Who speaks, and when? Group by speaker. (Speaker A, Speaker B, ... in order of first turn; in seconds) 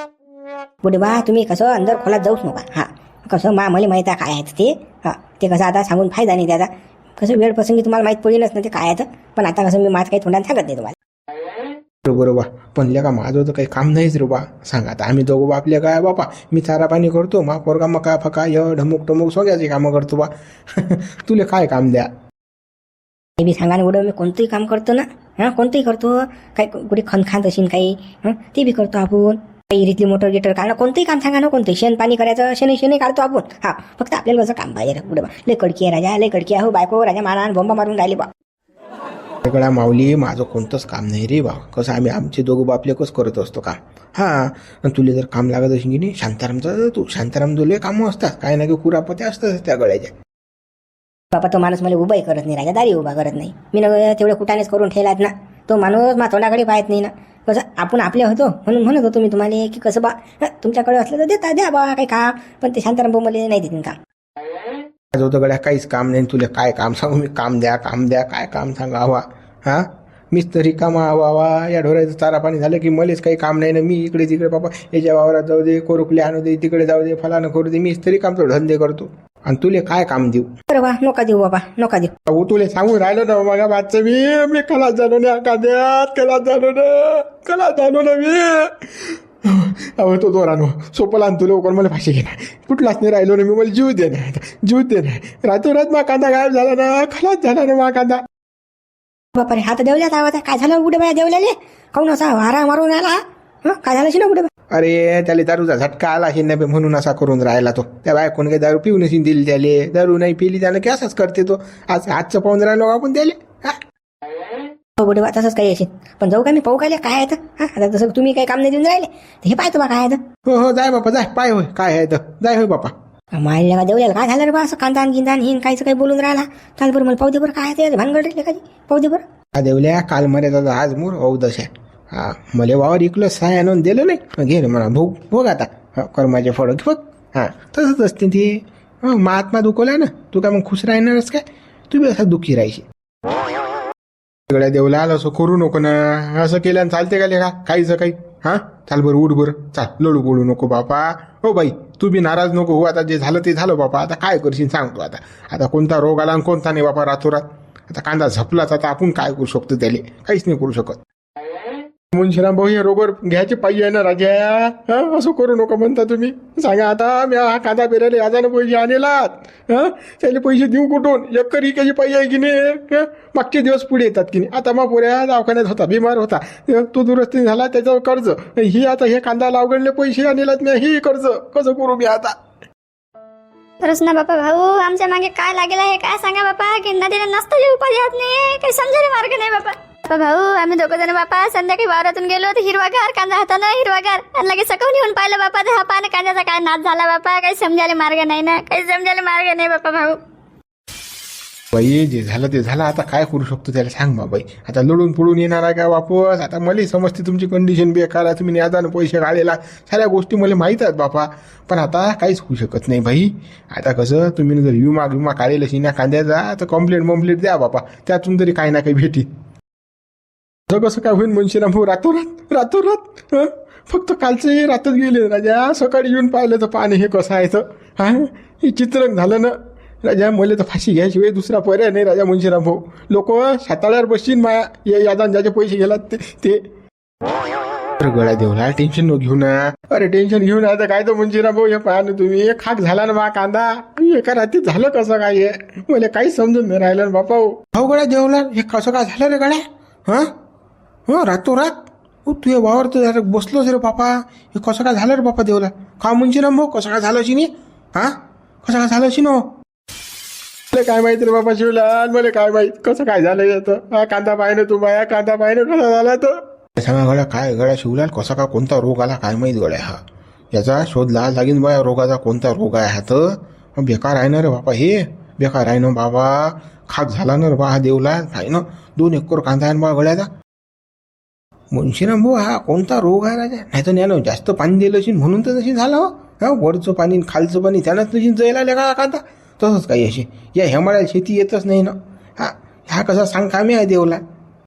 Speaker A: 0.8-10.9, 23.4-38.3, 51.3-64.0, 80.7-82.1, 99.3-104.5, 115.0-120.2, 123.3-129.2
Speaker B: 12.0-22.1, 39.4-50.1, 65.1-80.5, 82.2-98.2, 104.7-113.8, 120.4-122.9, 129.5-142.8, 144.5-161.0, 162.1-182.3, 201.7-219.3, 220.7-236.6, 238.0-250.3, 251.1-259.5, 260.7-270.0, 270.5-280.3, 281.7-294.2
Speaker C: 183.8-200.2